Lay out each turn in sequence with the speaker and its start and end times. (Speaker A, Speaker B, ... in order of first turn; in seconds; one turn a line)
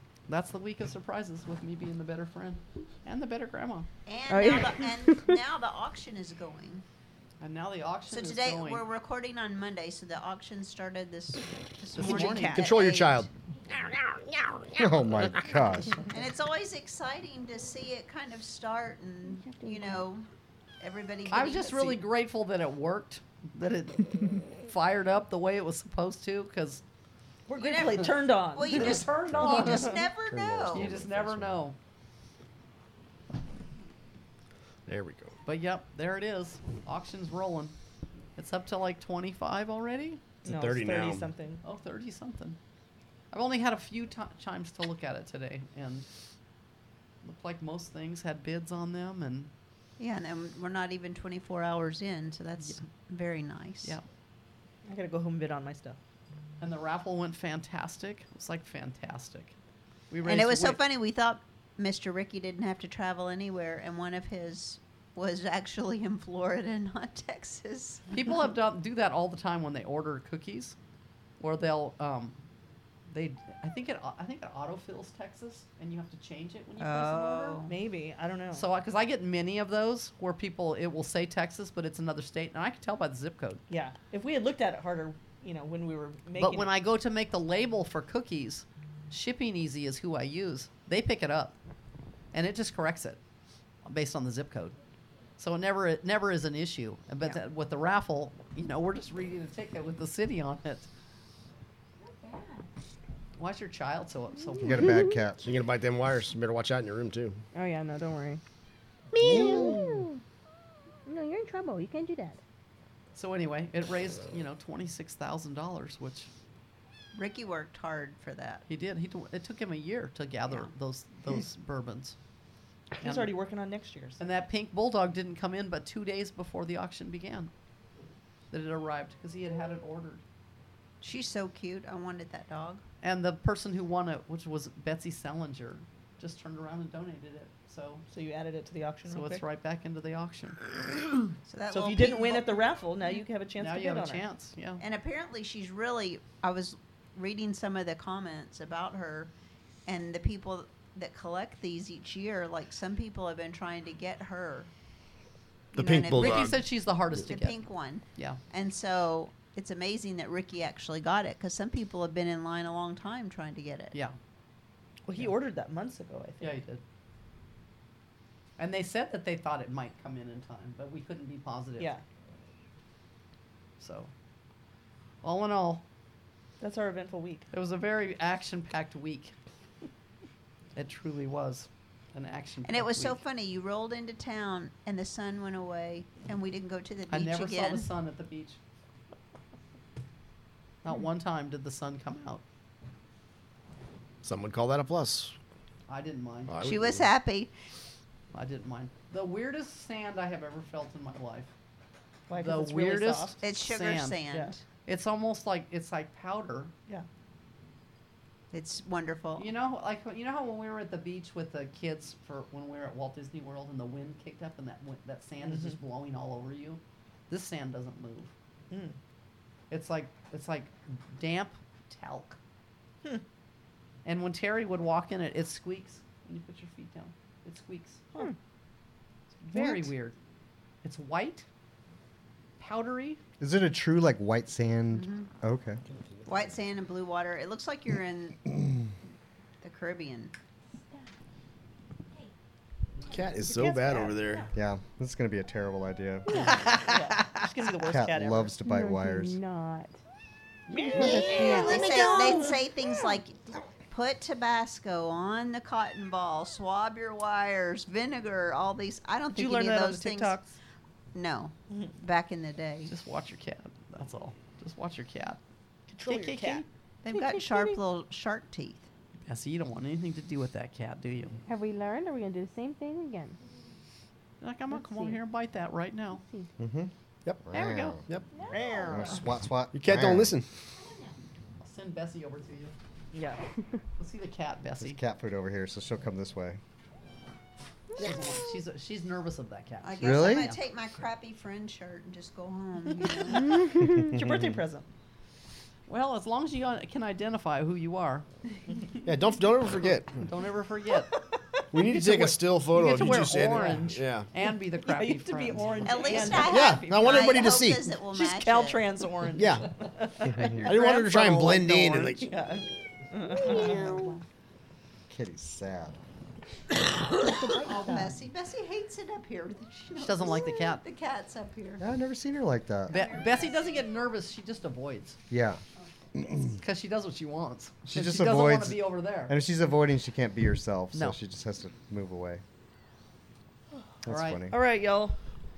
Speaker A: 0.3-3.9
Speaker B: 4.1-6.8
Speaker C: 4.3-5.3
Speaker A: 7.4-8.8
Speaker B: 8.1-13.3
Speaker D: 12.0-12.7
Speaker E: 12.1-14.8
Speaker A: 12.2-12.4
Speaker F: 14.8-16.0
Speaker B: 16.1-20.3
Speaker C: 19.3-20.0
Speaker B: 20.8-22.0
Speaker A: 21.3-26.8
Speaker D: 27.5-29.0
Speaker B: 27.5-30.9
Speaker A: 28.6-30.1
Speaker E: 30.3-31.5
Speaker F: 30.3-31.5
Speaker A: 30.7-31.8
Speaker E: 34.9-35.4
Speaker A: 35.5-37.8
Speaker A: 38.4-40.2
Speaker E: 40.4-41.3
Speaker D: 40.4-41.6
Speaker A: 41.6-42.6
Speaker A: 43.3-46.1
Speaker A: 47.2-49.5
Speaker B: 50.0-54.0
Speaker D: 54.9-56.0
Speaker A: 56.6-59.5
Speaker A: 60.1-60.8
Speaker B: 60.2-68.1
Speaker A: 68.1-70.8
Speaker A: 71.4-72.4
Speaker A: 73.1-77.6
Speaker B: 76.8-77.8
Speaker D: 77.7-78.7
Speaker A: 78.5-83.6
Speaker D: 83.7-86.7
Speaker A: 86.3-91.6
Speaker A: 92.3-93.2
Speaker A: 93.8-94.8
Speaker A: 95.4-100.9
Speaker C: 102.0-102.7
Speaker A: 103.4-105.0
Speaker F: 104.6-105.5
Speaker E: 105.4-107.4
Speaker C: 107.5-108.4
Speaker E: 109.1-109.9
Speaker C: 109.2-110.2
Speaker C: 111.1-112.4
Speaker A: 113.2-116.3
Speaker B: 117.1-118.6
Speaker A: 118.7-122.2
Speaker D: 123.0-124.2
Speaker A: 123.0-123.3
Speaker A: 124.2-127.5
Speaker A: 128.5-130.2
Speaker B: 131.0-132.8
Speaker A: 133.0-138.0
Speaker D: 138.1-139.4
Speaker A: 139.1-140.6
Speaker B: 141.5-142.6
Speaker D: 141.7-144.2
Speaker A: 143.6-144.8
Speaker B: 144.8-149.3
Speaker B: 149.9-154.7
Speaker B: 155.7-156.7
Speaker E: 155.8-156.6
Speaker A: 156.1-158.4
Speaker B: 157.3-164.0
Speaker D: 165.1-166.6
Speaker A: 166.4-166.8
Speaker A: 168.6-171.9
Speaker A: 173.8-174.1
Speaker A: 175.2-175.8
Speaker D: 176.6-177.5
Speaker A: 177.5-179.3
Speaker A: 180.8-183.2
Speaker B: 182.7-187.9
Speaker A: 187.1-188.6
Speaker A: 190.8-192.4
Speaker E: 194.2-195.3
Speaker A: 195.9-196.7
Speaker E: 196.5-197.1
Speaker B: 196.6-197.5
Speaker A: 198.3-201.5
Speaker D: 202.3-203.4
Speaker A: 202.3-204.2
Speaker B: 203.4-204.6
Speaker A: 204.8-206.7
Speaker B: 208.5-209.5
Speaker A: 209.4-218.3
Speaker D: 215.4-215.8
Speaker D: 218.7-219.0
Speaker A: 219.7-222.4
Speaker A: 224.1-228.0
Speaker A: 229.4-230.2
Speaker A: 230.8-231.5
Speaker A: 232.6-233.2
Speaker F: 233.4-235.8
Speaker B: 234.9-235.3
Speaker B: 236.3-238.6
Speaker B: 239.6-240.3
Speaker C: 240.8-241.1
Speaker E: 243.1-244.5
Speaker D: 243.4-244.5
Speaker F: 244.5-246.7
Speaker C: 246.3-246.6
Speaker A: 246.5-247.4
Speaker D: 246.7-248.6
Speaker F: 247.9-249.4
Speaker C: 248.6-250.0
Speaker D: 250.7-252.6
Speaker E: 251.0-252.0
Speaker B: 251.0-260.4
Speaker C: 251.3-251.9
Speaker D: 259.3-260.6
Speaker B: 261.1-262.9
Speaker D: 261.7-261.9
Speaker A: 262.9-265.4
Speaker D: 265.9-266.7
Speaker A: 266.0-266.7
Speaker B: 267.0-268.9
Speaker C: 267.2-267.8
Speaker A: 269.3-271.4
Speaker C: 271.5-273.4
Speaker A: 274.4-276.2
Speaker C: 274.7-275.2
Speaker C: 276.1-276.5
Speaker F: 276.6-276.9
Speaker F: 277.4-278.1
Speaker A: 277.5-278.0
Speaker C: 278.3-279.1
Speaker D: 278.5-279.2
Speaker F: 278.9-280.4
Speaker E: 279.7-280.5
Speaker A: 281.6-282.8
Speaker D: 283.1-283.4
Speaker A: 284.0-285.0
Speaker F: 284.8-286.6
Speaker A: 288.0-290.6
Speaker B: 289.8-293.7
Speaker F: 290.0-290.5
Speaker D: 293.1-294.9
Speaker F: 293.9-294.6
Speaker A: 295.9-298.3
Speaker D: 298.7-298.9
Speaker E: 299.1-300.2
Speaker A: 300.1-301.2
Speaker D: 301.1-304.0
Speaker E: 301.7-304.3
Speaker A: 302.8-306.2
Speaker D: 304.8-314.2
Speaker B: 305.8-308.9
Speaker E: 306.4-307.9
Speaker E: 309.4-309.7
Speaker E: 310.6-312.3
Speaker B: 313.3-314.1
Speaker F: 315.1-316.0
Speaker D: 317.2-318.1
Speaker B: 317.6-321.8
Speaker A: 320.0-320.8
Speaker F: 321.8-323.0
Speaker B: 322.9-323.8
Speaker A: 322.9-325.2
Speaker F: 325.3-325.6
Speaker F: 326.1-326.6
Speaker A: 326.6-329.4
Speaker F: 327.9-332.4
Speaker F: 334.0-334.6
Speaker A: 334.1-334.4
Speaker D: 334.5-335.1